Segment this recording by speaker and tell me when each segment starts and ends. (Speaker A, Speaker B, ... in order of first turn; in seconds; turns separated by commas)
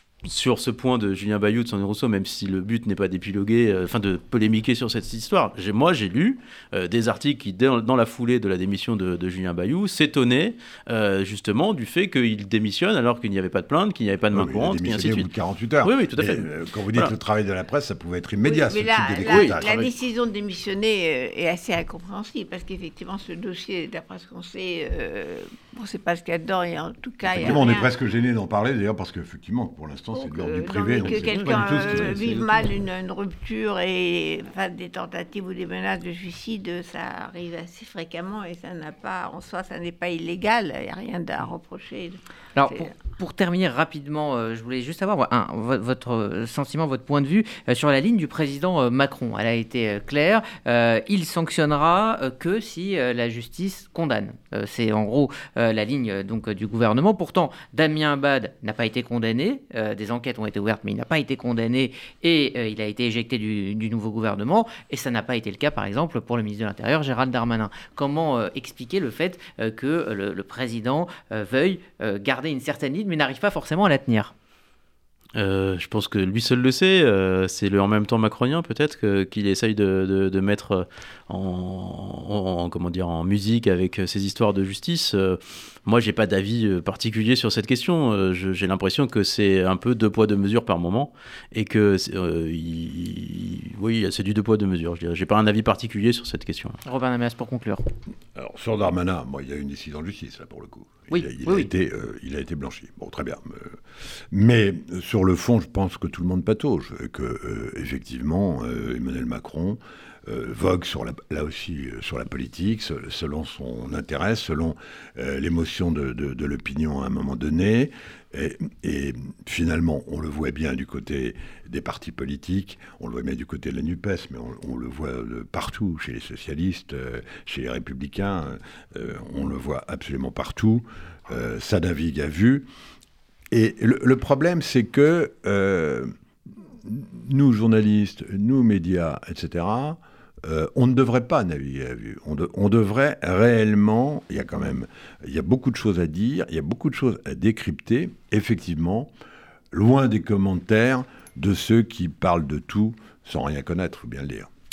Speaker A: 0.2-15.3, Speaker B: 14.3-19.9, Speaker A: 15.8-17.1, Speaker C: 18.4-27.9, Speaker A: 19.2-19.6, Speaker B: 27.2-32.6, Speaker C: 30.1-42.9, Speaker A: 31.0-32.2, Speaker D: 42.5-74.3, Speaker A: 75.3-96.8, Speaker D: 96.8-97.8, Speaker B: 98.3-103.8, Speaker D: 101.1-101.7, Speaker B: 104.3-132.7, Speaker B: 133.5-136.1, Speaker B: 136.8-149.1, Speaker B: 149.7-154.5